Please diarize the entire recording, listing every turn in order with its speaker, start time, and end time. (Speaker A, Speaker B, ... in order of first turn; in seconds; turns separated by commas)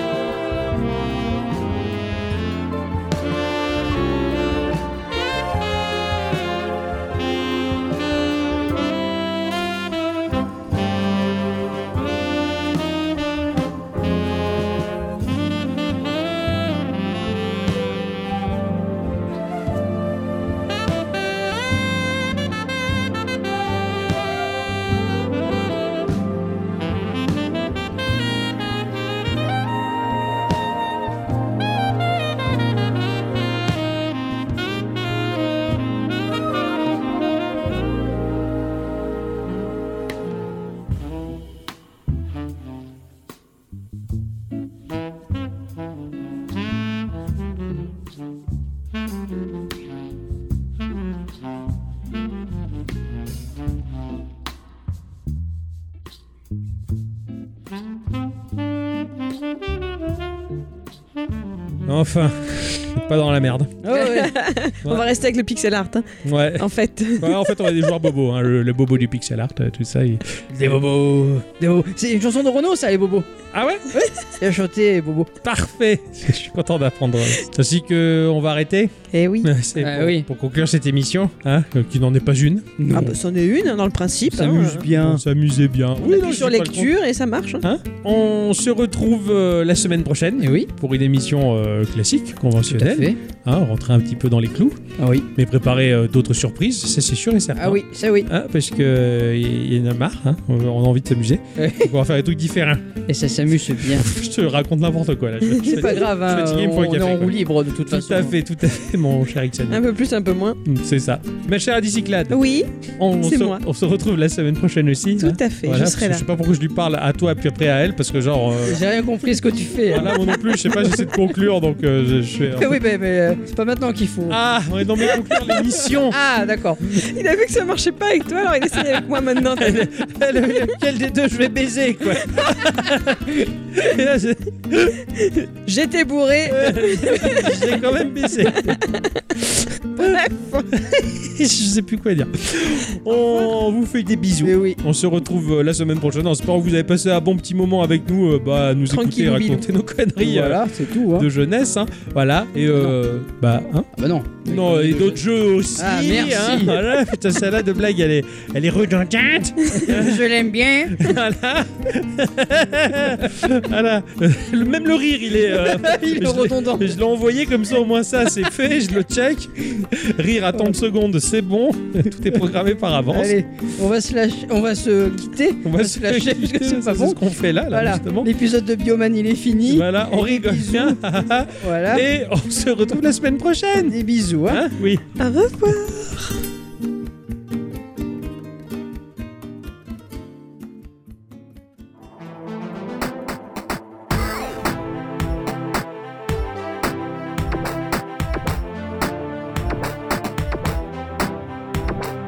Speaker A: 61.9-63.8, Speaker B: 63.8-64.4, Speaker C: 63.9-67.5, Speaker A: 66.2-70.7, Speaker B: 70.5-73.3, Speaker A: 73.5-73.9, Speaker B: 73.9-75.3, Speaker A: 75.4-82.7, Speaker C: 79.1-79.5, Speaker B: 79.8-80.3, Speaker B: 82.8-83.2, Speaker C: 82.9-84.9, Speaker B: 84.3-85.2, Speaker A: 84.4-86.9, Speaker C: 86.0-87.6, Speaker A: 87.6-94.8, Speaker B: 90.4-90.7, Speaker B: 92.7-93.2, Speaker B: 95.0-95.3, Speaker A: 95.3-102.9, Speaker B: 97.6-98.3, Speaker B: 101.6-101.9, Speaker B: 103.1-104.1, Speaker A: 103.8-109.8, Speaker B: 105.6-108.4, Speaker C: 109.7-110.6, Speaker A: 110.7-112.4, Speaker C: 112.3-112.7, Speaker A: 113.0-118.8, Speaker C: 113.2-113.6, Speaker C: 115.2-116.2, Speaker B: 118.7-120.2, Speaker A: 119.9-122.8, Speaker C: 120.5-121.0, Speaker B: 122.6-124.4, Speaker A: 124.3-126.2, Speaker B: 126.0-126.8, Speaker C: 126.9-129.9, Speaker A: 129.5-135.0, Speaker C: 132.2-132.7, Speaker C: 135.1-139.1, Speaker A: 136.4-138.8, Speaker A: 139.4-140.2, Speaker C: 140.0-140.7, Speaker A: 140.7-153.9, Speaker C: 143.1-143.6, Speaker B: 144.4-144.8, Speaker C: 148.9-149.6, Speaker B: 150.2-151.3, Speaker B: 153.9-155.2, Speaker A: 154.4-160.3, Speaker B: 155.8-156.8, Speaker B: 159.7-161.1, Speaker A: 160.9-173.3, Speaker B: 165.5-167.0, Speaker B: 173.1-181.0, Speaker A: 175.6-178.3, Speaker A: 179.7-185.1, Speaker B: 181.5-182.1, Speaker B: 183.9-184.7, Speaker C: 185.2-186.3